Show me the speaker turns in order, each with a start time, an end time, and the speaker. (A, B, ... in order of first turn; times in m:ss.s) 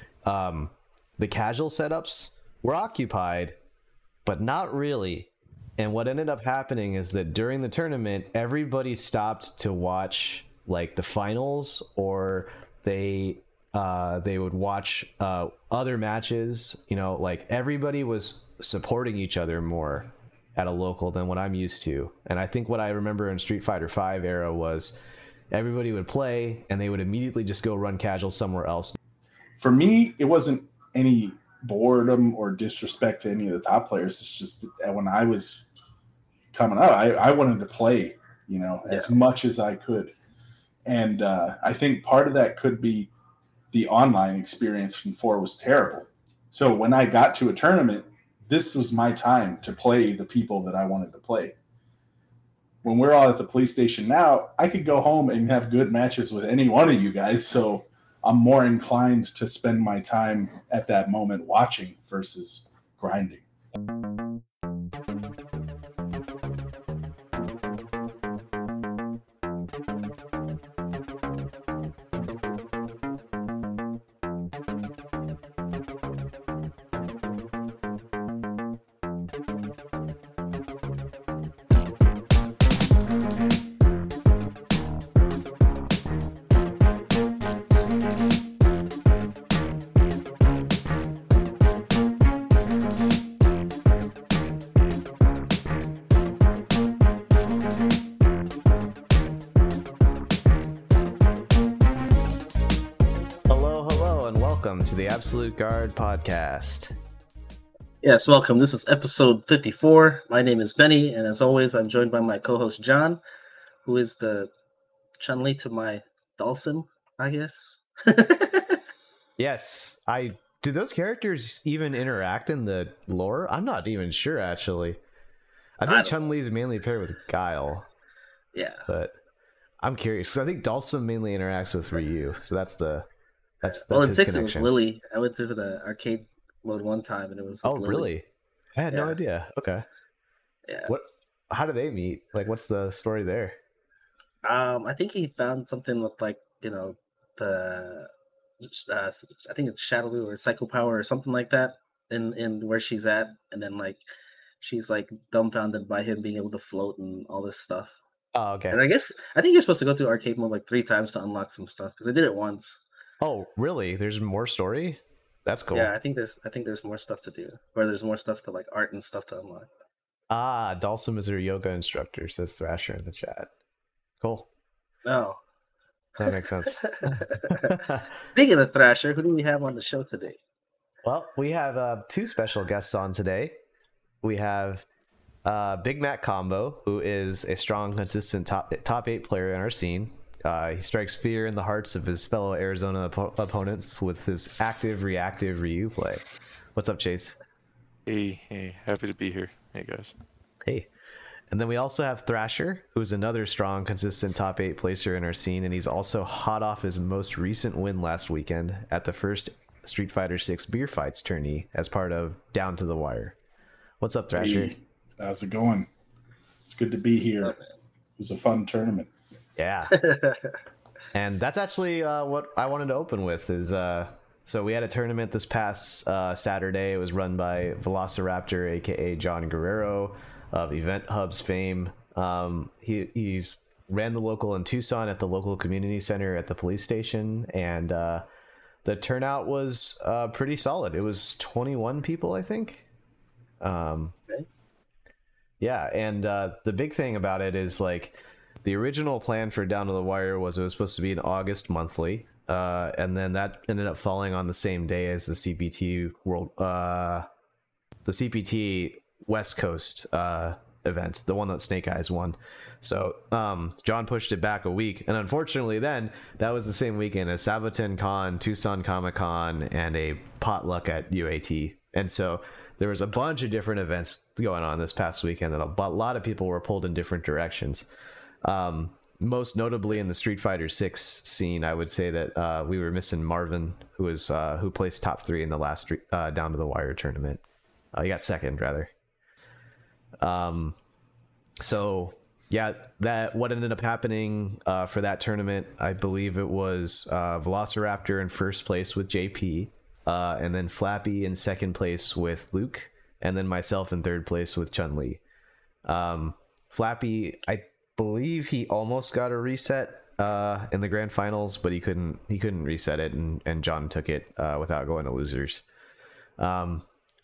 0:00.3-0:03.6 A
0:04.2-0:25.0 A
0:25.5-0:29.0 A
0:29.6-0:35.7 B
0:36.5-0:40.2 B
0:38.8-0:39.1 C
0:40.9-0:43.1 B
0:43.7-0:51.6 B
0:52.8-1:03.4 B
1:43.5-1:46.9 A
1:48.0-1:53.2 C
1:53.9-1:54.5 C
1:55.2-1:58.8 C
1:59.4-2:05.0 A
2:05.8-2:07.9 A
2:05.9-2:06.2 C
2:08.5-2:08.8 C
2:08.9-2:09.2 A
2:09.8-2:13.1 A
2:13.6-2:14.7 A
2:13.6-2:18.1 C
2:17.6-2:19.9 A
2:18.9-2:19.2 C
2:20.9-2:23.6 A
2:24.4-2:28.1 C
2:28.6-2:34.0 C
2:34.6-2:38.0 C
2:38.4-2:38.8 A
2:38.7-2:42.8 C
2:43.2-2:45.9 A
2:45.7-2:49.7 C
2:50.3-2:53.5 A
2:54.2-2:54.5 A
2:55.0-2:55.4 C
2:56.2-2:58.0 A
2:56.8-2:57.8 C
2:58.3-3:00.4 C
3:01.0-3:03.6 A
3:04.2-3:04.9 A
3:05.4-3:17.4 A
3:18.1-3:20.2 D
3:21.5-3:33.4 A
3:34.0-3:34.7 A
3:34.4-3:35.9 B
3:36.7-3:37.6 B
3:37.4-3:37.7 C
3:38.2-3:39.1 B
3:39.6-3:40.0 A
3:39.9-3:40.6 C
3:41.1-3:58.2 A
3:58.8-4:02.9 A
4:03.6-4:04.2 A
4:05.6-4:17.3 A
4:18.0-4:37.9 A
4:38.4-4:47.4 A
4:47.9-4:48.9 A
4:50.2-4:50.8 A
4:51.6-5:05.2 A
5:05.9-5:15.6 A
5:16.4-5:16.9 A